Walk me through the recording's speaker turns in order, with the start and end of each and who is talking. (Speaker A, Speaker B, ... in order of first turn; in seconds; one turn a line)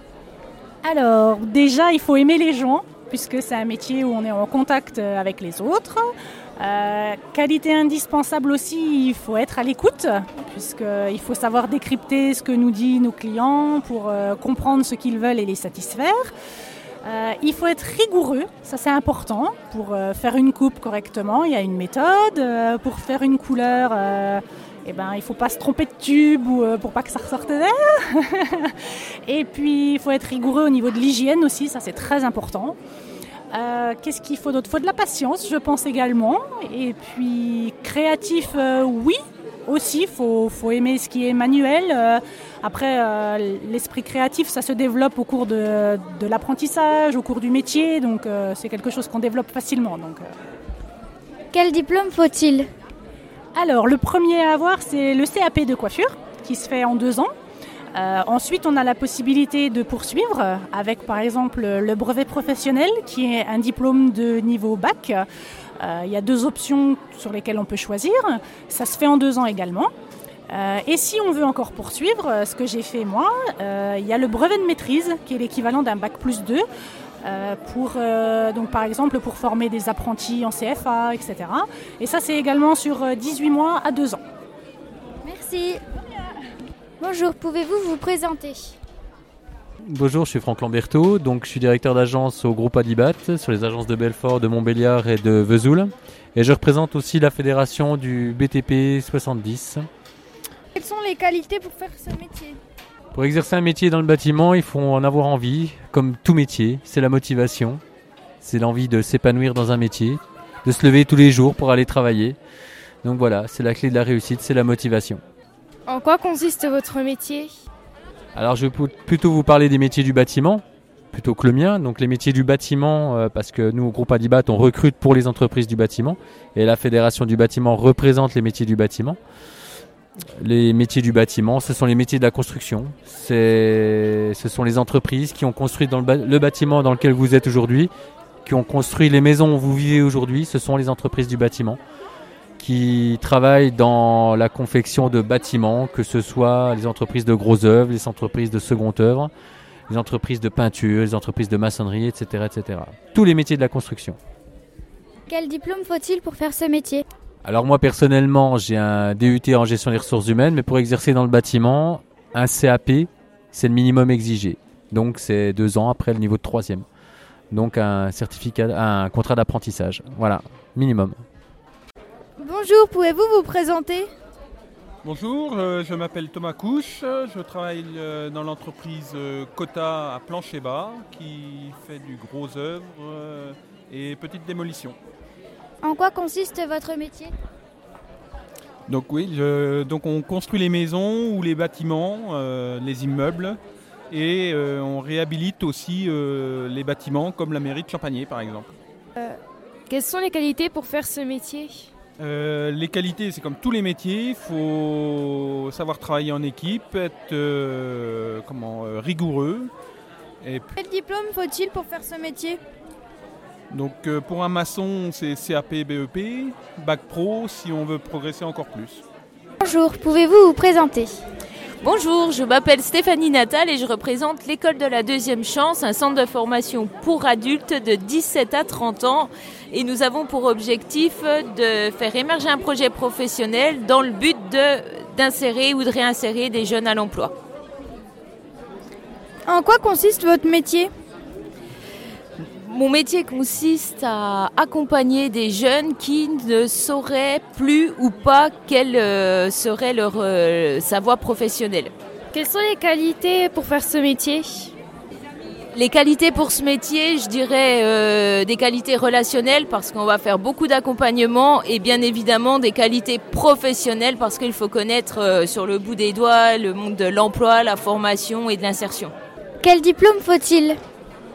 Speaker A: 0.8-16.3
Speaker A: 17.0-28.8
Speaker A: 29.3-32.8
Speaker A: 33.5-50.3
Speaker B: 51.5-52.7
Speaker A: 53.5-57.3
Speaker A: 57.9-65.3
Speaker A: 65.8-69.9
Speaker A: 70.5-76.7
Speaker A: 77.2-84.2
Speaker B: 85.2-85.8
Speaker B: 87.0-88.8
Speaker C: 89.8-99.9
Speaker D: 100.8-102.6
Speaker C: 103.1-107.8
Speaker C: 108.4-112.4
Speaker C: 113.0-115.2
Speaker E: 115.9-117.5
Speaker C: 118.3-129.2
Speaker C: 130.4-137.9
Speaker C: 138.4-141.8
Speaker C: 142.6-149.3
Speaker C: 149.9-154.2
Speaker B: 155.3-157.1
Speaker C: 157.4-166.8
Speaker C: 167.5-171.2
Speaker D: 172.4-174.1
Speaker F: 175.0-185.0
Speaker B: 185.8-187.3
Speaker F: 188.9-193.6
Speaker F: 194.1-198.7
Speaker E: 199.2-201.9
Speaker F: 202.2-209.7
Speaker F: 210.4-210.7
Speaker D: 210.8-212.6
Speaker F: 213.7-219.0
Speaker B: 219.6-221.2
Speaker G: 221.8-237.3
Speaker D: 239.5-240.9
Speaker G: 242.4-251.9
Speaker E: 252.3-254.7
Speaker G: 255.7-269.1
Speaker B: 269.6-270.8